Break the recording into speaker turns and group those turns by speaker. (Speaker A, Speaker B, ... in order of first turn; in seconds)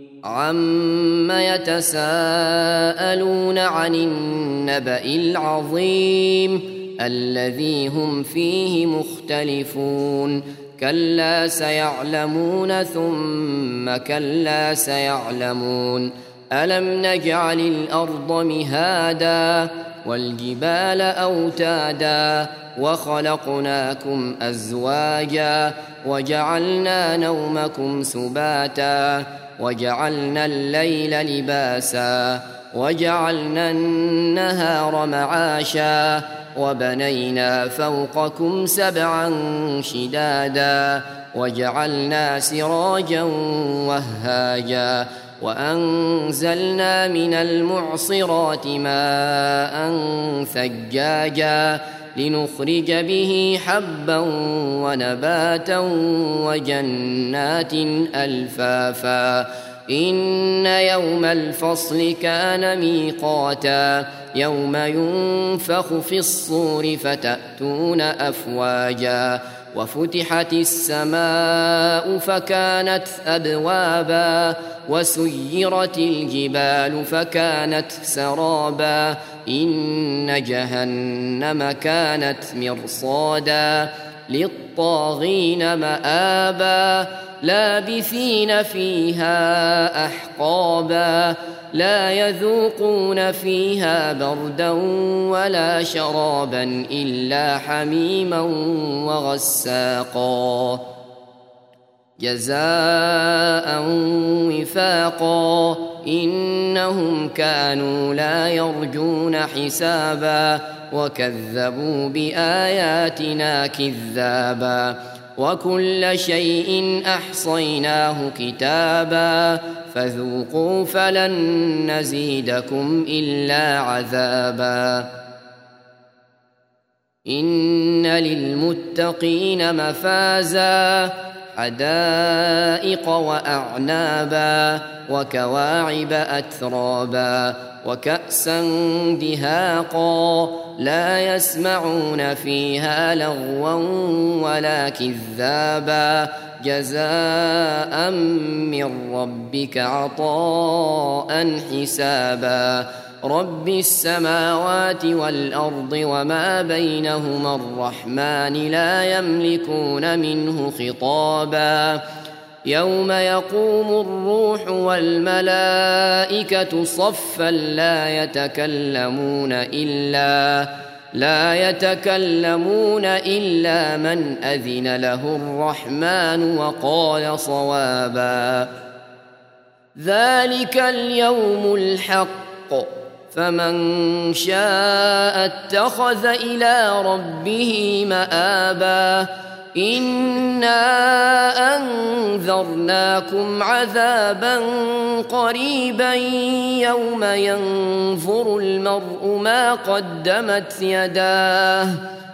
Speaker A: 0.2-100.9, 102.2-125.1, 127.2-162.0, 162.6-178.7, 179.9-202.0